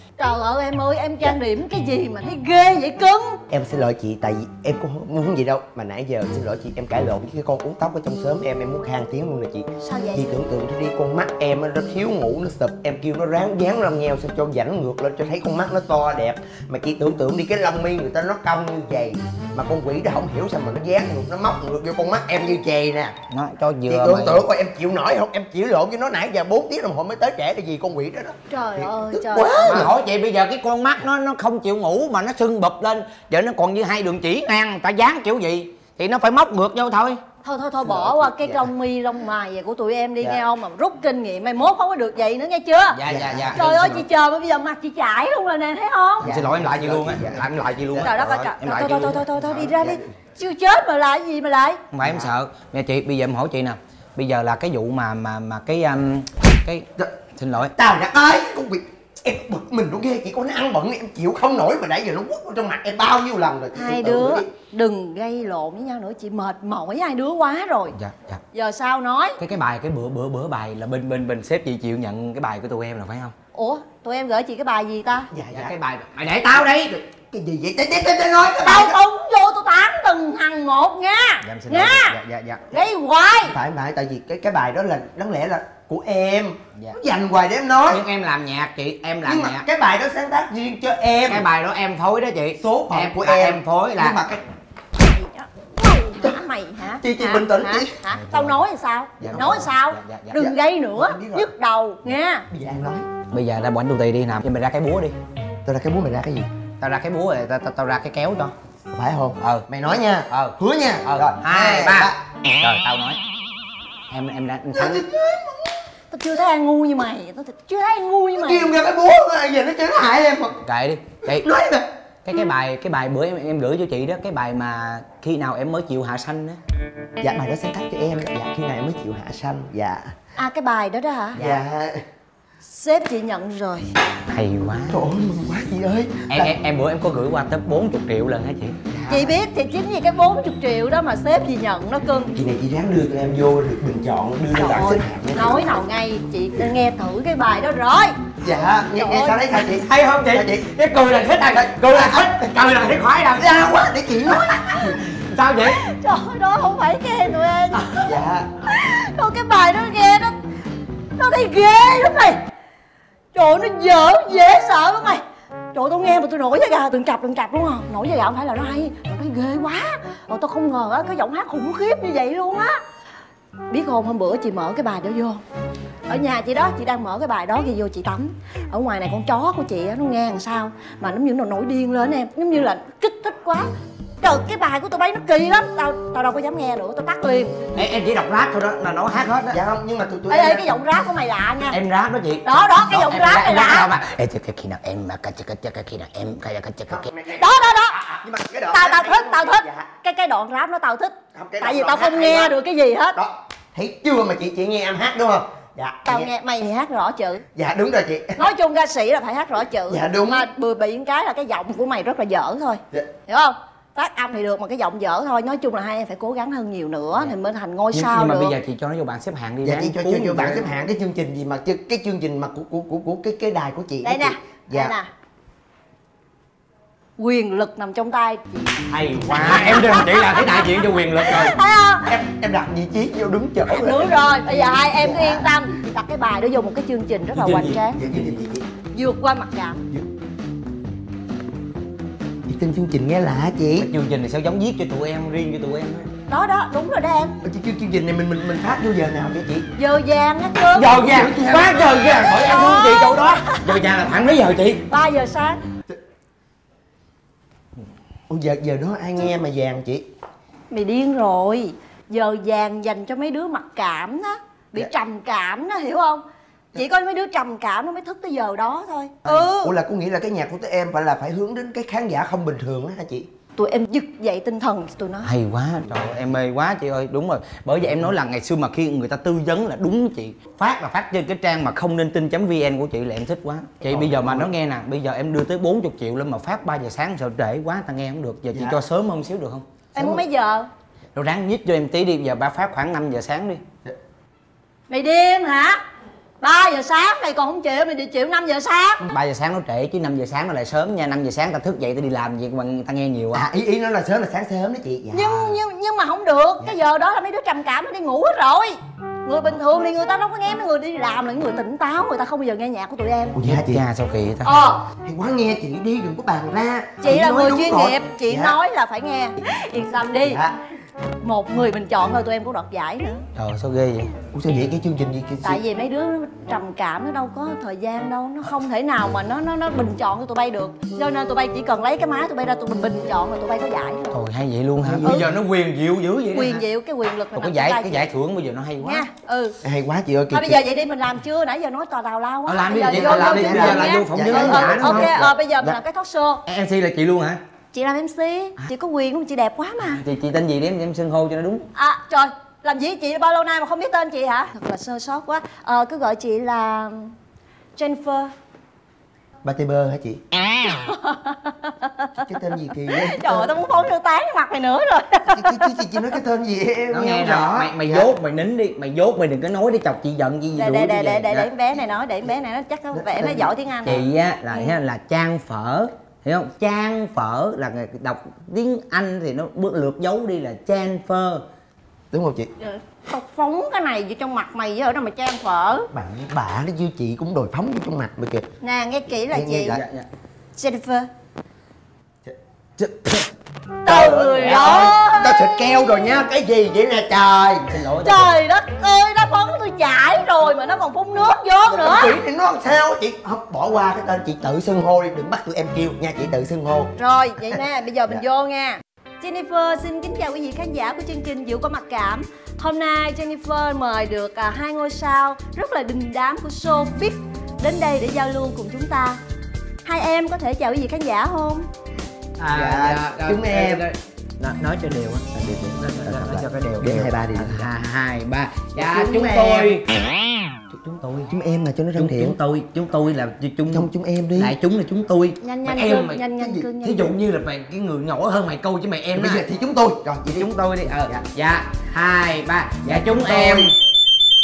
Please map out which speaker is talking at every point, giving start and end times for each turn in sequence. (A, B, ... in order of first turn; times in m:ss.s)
0:00.2-0:03.4 A
0:03.5-0:23.2 B
0:09.8-0:10.4 A
0:23.3-0:24.5 C
0:23.9-0:29.9 B
0:28.5-0:29.9 A
0:29.7-0:37.2 C
0:37.4-0:43.0 A
0:37.8-0:38.7 B
0:43.0-0:44.0 C
0:43.0-0:43.8 B
0:43.5-0:46.4 A
0:46.2-0:48.5 B
0:46.2-0:49.2 C
0:48.0-0:51.8 A
0:49.3-0:50.0 B
0:51.9-0:57.7 C
0:52.0-0:52.3 B
0:57.8-1:04.6 B
1:03.7-1:08.0 A
1:08.0-1:08.4 C
1:08.5-1:09.4 A
1:09.4-1:13.3 C
1:13.5-1:15.3 A
1:15.3-1:15.7 B
1:15.5-1:17.0 C
1:17.3-1:19.0 B
1:18.6-1:22.2 A
1:21.4-1:22.6 C
1:22.7-1:23.6 A
1:23.4-1:28.0 B
1:27.9-1:29.6 C
1:29.2-1:31.4 B
1:31.3-1:34.2 C
1:32.6-1:34.4 B
1:34.9-1:42.5 A
1:37.0-1:38.0 B
1:39.2-1:39.6 B
1:39.2-1:40.5 C
1:40.4-1:41.5 B
1:42.5-1:43.1 B
1:43.3-1:45.2 C
1:45.6-1:46.5 B
1:46.8-1:48.5 C
1:48.9-1:52.2 B
1:49.4-1:53.2 C
1:54.1-1:55.0 C
1:54.8-1:55.8 B
1:56.1-1:58.7 A
1:58.4-2:00.6 B
2:00.6-2:01.5 C
2:01.3-2:01.9 B
2:02.2-2:06.6 C
2:07.2-2:10.2 B
2:10.4-2:11.5 A
2:11.4-2:12.0 B
2:12.7-2:13.9 A
2:14.3-2:15.1 C
2:14.9-2:16.5 B
2:16.3-2:18.8 C
2:18.9-2:19.4 B
2:19.1-2:22.3 A
2:22.3-2:25.6 B
2:24.6-2:28.3 A
2:28.4-2:30.7 B
2:28.9-2:29.4 A
2:29.6-2:33.9 C
2:31.4-2:32.5 B
2:33.4-2:35.0 B
2:35.3-2:35.8 C
2:35.8-2:37.9 A
2:38.0-2:38.5 B
2:38.7-2:40.4 A
2:41.2-2:42.4 A
2:43.3-2:45.2 A
2:45.7-2:52.8 A
2:53.7-2:55.4 A
2:56.1-3:03.7 A
3:04.2-3:07.6 A
3:07.8-3:09.6 C
3:09.5-3:10.8 B
3:10.3-3:11.8 A
3:11.7-3:17.1 C
3:12.4-3:13.9 A
3:16.9-3:19.9 B
3:17.4-3:18.0 A
3:18.7-3:23.2 A
3:21.3-3:22.6 B
3:23.2-3:26.3 B
3:26.0-3:27.4 A
3:27.6-3:28.5 B
3:28.4-3:38.5 A
3:29.9-3:30.5 B
3:37.9-3:40.6 C
3:39.6-3:45.0 B
3:44.0-3:45.1 A
3:47.2-3:48.6 A
3:48.9-3:51.5 C
3:49.3-3:52.1 A
3:49.3-3:49.8 B
3:52.1-3:55.4 B
3:53.7-3:58.0 A
3:57.3-3:57.8 C
3:58.0-3:58.6 B
3:58.9-3:59.8 A
4:02.5-4:03.9 B
4:03.8-4:06.1 C
4:06.3-4:07.4 A
4:07.4-4:09.7 B
4:09.8-4:11.0 A
4:10.8-4:14.8 C
4:11.0-4:12.3 B
4:12.0-4:13.8 A
4:14.9-4:15.6 A
4:18.3-4:20.1 B
4:20.7-4:26.2 A
4:26.8-4:29.8 A
4:29.2-4:33.3 B
4:33.6-4:35.3 A
4:35.2-4:49.7 C
4:43.8-4:44.5 B
4:48.5-4:48.8 B
4:50.0-4:50.7 A
4:50.0-4:50.2 B
4:51.2-4:53.6 C
4:54.9-4:55.8 A
4:56.4-4:59.0 A
4:59.1-5:03.5 C
5:03.3-5:05.6 B
5:05.1-5:13.4 A
5:13.4-5:13.8 B
5:13.4-5:14.5 C
5:14.4-5:14.8 A
5:14.9-5:18.6 B
5:17.0-5:20.4 A
5:20.2-5:20.5 B
5:21.2-5:23.2 A
5:23.4-5:24.1 C
5:24.3-5:25.6 B
5:25.4-5:34.2 A
5:34.1-5:36.6 C
5:34.8-5:35.4 B
5:36.3-5:38.1 A
5:37.4-5:39.0 C
5:38.8-5:39.6 A
5:39.6-5:40.6 B
5:40.3-5:46.4 A
5:42.5-5:45.2 C
5:42.8-5:45.8 B
5:46.5-5:47.4 C
5:47.7-5:50.0 A
5:49.9-5:51.7 C
5:51.8-5:57.1 A
5:57.8-5:58.3 A
5:59.4-6:00.2 B
6:00.7-6:02.3 A
6:02.2-6:03.8 B
6:02.9-6:06.2 A
6:05.3-6:08.1 B
6:06.9-6:11.4 C
6:10.6-6:14.8 A
6:10.7-6:11.1 B
6:12.9-6:13.5 B
6:13.9-6:21.4 C
6:22.1-6:22.5 B
6:22.6-6:25.9 A
6:25.9-6:28.5 B
6:28.6-6:29.8 A
6:29.3-6:29.8 B
6:29.7-6:30.1 C
6:30.6-6:31.1 A
6:32.3-6:33.3 B
6:33.9-6:35.5 A
6:33.9-6:37.7 B
6:34.5-6:34.9 C
6:37.7-6:38.3 C
6:38.0-6:42.2 A
6:41.7-6:46.9 B
6:47.0-6:59.2 A
6:59.8-7:01.7 A
7:02.4-7:03.8 B
7:02.4-7:09.8 C
7:05.3-7:07.7 B
7:08.8-7:09.8 B
7:10.7-7:11.3 C
7:11.3-7:12.4 B
7:12.0-7:19.4 C
7:13.7-7:14.6 B
7:15.4-7:17.1 A
7:16.4-7:16.7 B
7:19.2-7:20.5 B
7:20.2-7:23.7 C
7:22.9-7:23.7 B